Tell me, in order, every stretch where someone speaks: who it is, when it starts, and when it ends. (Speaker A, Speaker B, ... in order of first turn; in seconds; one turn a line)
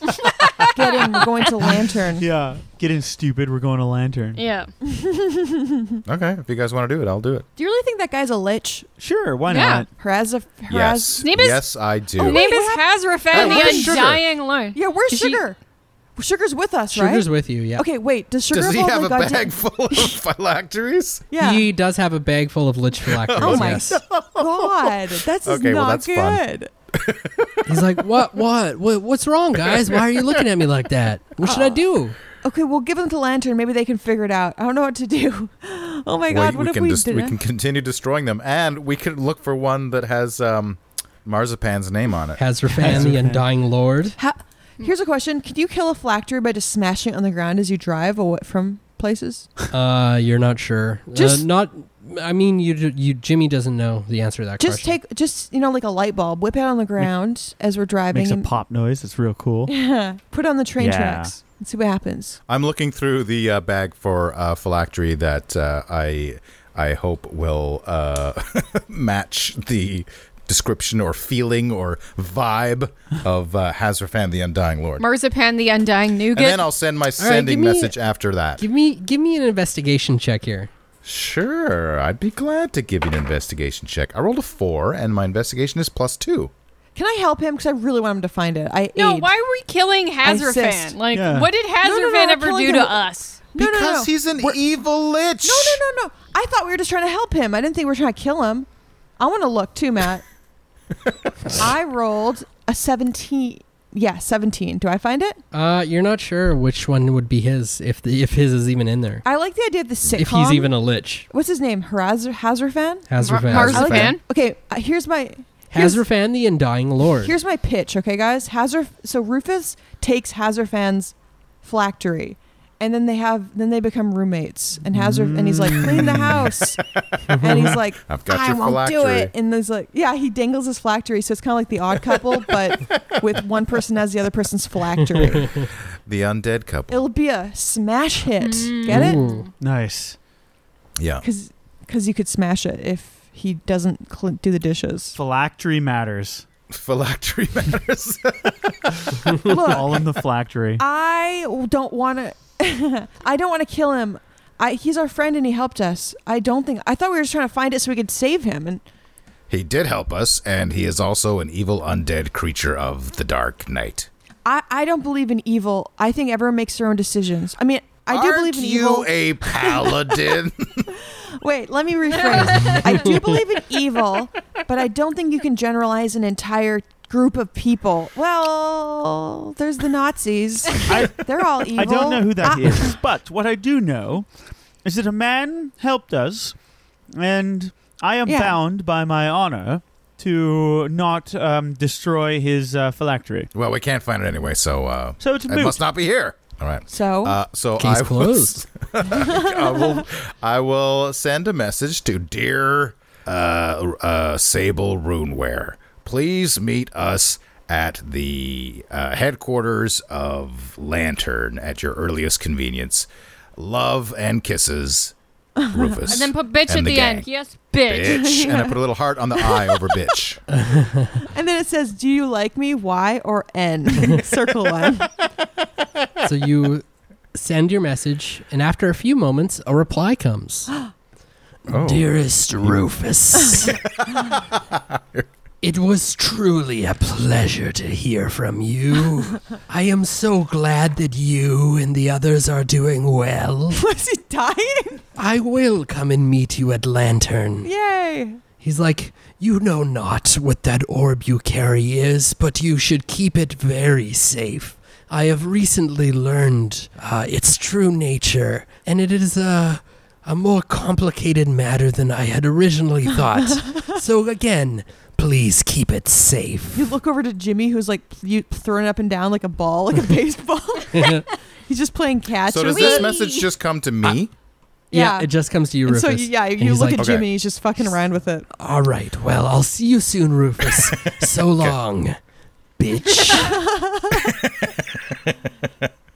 Speaker A: 0.1-1.5
Speaker B: 0.7-2.3
Speaker C: 1.6-4.4
Speaker A: 4.3-4.7
Speaker B: 4.8-6.0
Speaker D: 6.0-7.4
Speaker B: 7.6-8.9
Speaker C: 9.0-9.9
Speaker A: 9.5-9.8
Speaker B: 10.0-11.2
Speaker D: 10.7-12.4
Speaker A: 11.2-11.6
Speaker A: 12.2-15.4
Speaker B: 12.2-14.0
Speaker D: 13.3-14.2
Speaker B: 14.7-15.6
Speaker B: 16.1-20.2
Speaker E: 16.9-17.8
Speaker D: 18.5-21.2
Speaker B: 21.3-21.6
Speaker E: 21.4-23.9
Speaker D: 23.1-27.8
Speaker B: 23.4-26.7
Speaker E: 27.6-32.1
Speaker D: 29.6-30.4
Speaker B: 31.4-31.8
Speaker B: 32.4-37.4
Speaker D: 36.3-43.0
Speaker E: 42.4-44.2
Speaker C: 42.7-43.4
Speaker B: 44.2-49.5
Speaker E: 49.7-55.0
Speaker B: 51.1-51.4
Speaker B: 54.6-58.5
Speaker C: 58.1-59.7
Speaker B: 59.7-62.4
Speaker C: 60.8-61.3
Speaker D: 62.5-75.0
Speaker A: 75.0-76.6
Speaker D: 76.3-78.6
Speaker E: 77.2-77.9
Speaker E: 78.6-80.7
Speaker D: 81.0-86.5
Speaker B: 86.9-89.3
Speaker A: 88.9-93.4
Speaker B: 90.2-91.0
Speaker C: 91.1-91.5
Speaker B: 91.8-93.0
Speaker B: 93.5-94.6
Speaker D: 93.6-95.8
Speaker B: 95.4-98.7
Speaker B: 99.2-100.2
Speaker B: 101.5-105.4
Speaker E: 105.5-109.2
Speaker B: 109.2-110.7
Speaker E: 110.1-111.3
Speaker B: 111.3-116.0
Speaker E: 113.1-114.1
Speaker A: 113.2-114.2
Speaker D: 113.3-114.2
Speaker E: 115.7-117.3
Speaker B: 117.2-126.8
Speaker C: 124.9-126.5
Speaker E: 127.3-127.7
Speaker B: 127.4-135.6
Speaker D: 128.1-129.3
Speaker D: 136.0-137.0
Speaker B: 136.9-139.2
Speaker A: 138.4-139.5
Speaker E: 138.8-139.5
Speaker C: 139.6-140.2
Speaker D: 141.0-141.2
Speaker B: 141.2-145.2
Speaker C: 145.2-146.4
Speaker D: 146.7-149.3
Speaker B: 149.4-150.0
Speaker C: 149.6-150.8
Speaker B: 150.8-158.8
Speaker D: 159.5-164.1
Speaker B: 164.4-170.1
Speaker D: 168.1-170.9
Speaker B: 171.1-183.0
Speaker A: 172.1-173.0
Speaker C: 180.8-184.3
Speaker C: 184.8-186.6
Speaker C: 187.1-193.5
Speaker B: 188.2-188.6
Speaker D: 193.5-215.1
Speaker C: 195.2-195.8
Speaker B: 196.9-197.4
Speaker E: 197.8-198.6
Speaker B: 199.2-200.0
Speaker B: 215.6-216.2
Speaker D: 215.7-217.2
Speaker A: 216.1-218.5
Speaker D: 217.8-220.4
Speaker B: 218.1-218.8
Speaker B: 219.4-219.9
Speaker E: 220.5-221.2
Speaker B: 221.3-225.1
Speaker E: 226.2-230.7
Speaker D: 231.7-232.8
Speaker E: 231.7-233.8
Speaker D: 233.6-235.3
Speaker E: 235.6-243.8
Speaker B: 243.8-245.0
Speaker E: 245.2-247.7
Speaker B: 247.6-248.4
Speaker E: 248.6-266.9
Speaker B: 266.7-273.1
Speaker E: 270.9-271.2
Speaker D: 272.4-274.3
Speaker A: 272.6-273.5
Speaker B: 274.9-275.3
Speaker E: 274.9-277.1
Speaker B: 275.9-278.5
Speaker D: 276.9-277.3
Speaker E: 278.6-282.2
Speaker D: 280.8-281.8
Speaker E: 282.8-283.6
Speaker B: 283.3-284.4
Speaker D: 284.1-285.9